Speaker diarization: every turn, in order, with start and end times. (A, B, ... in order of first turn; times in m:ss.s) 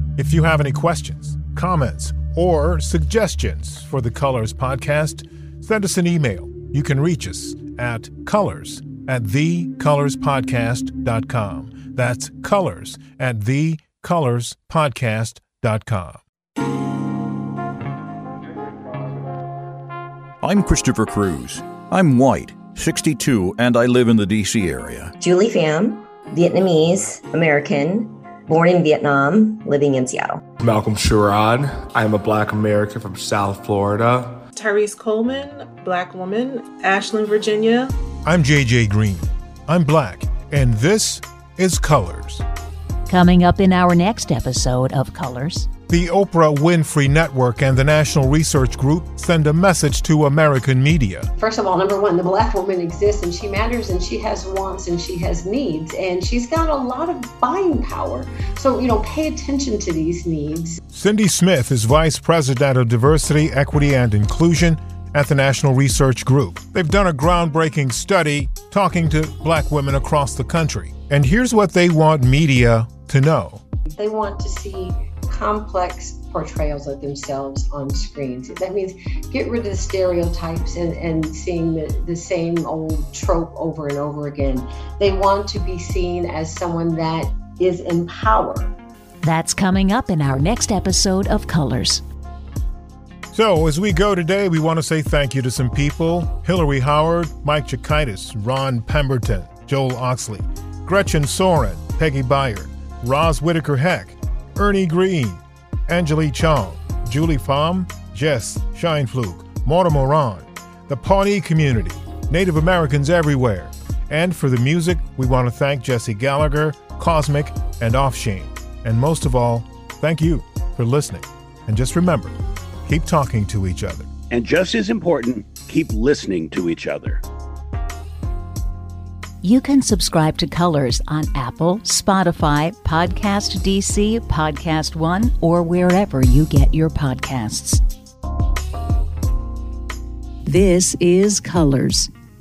0:00.2-0:16.2 A
0:20.4-0:25.1 B
0:25.2-0:30.4 C
0:30.6-0:34.4 D
0:34.5-0:37.9 E
0:38.2-0:42.4 A
0:43.1-0:45.7 F
0:45.9-0:51.3 A
0:51.4-1:00.8 G
1:00.9-1:13.6 A
1:13.9-1:28.7 G
1:29.2-1:32.0 F
1:33.3-2:04.1 A
2:04.3-2:07.2 H
2:09.4-2:17.8 F
2:20.4-2:22.1 F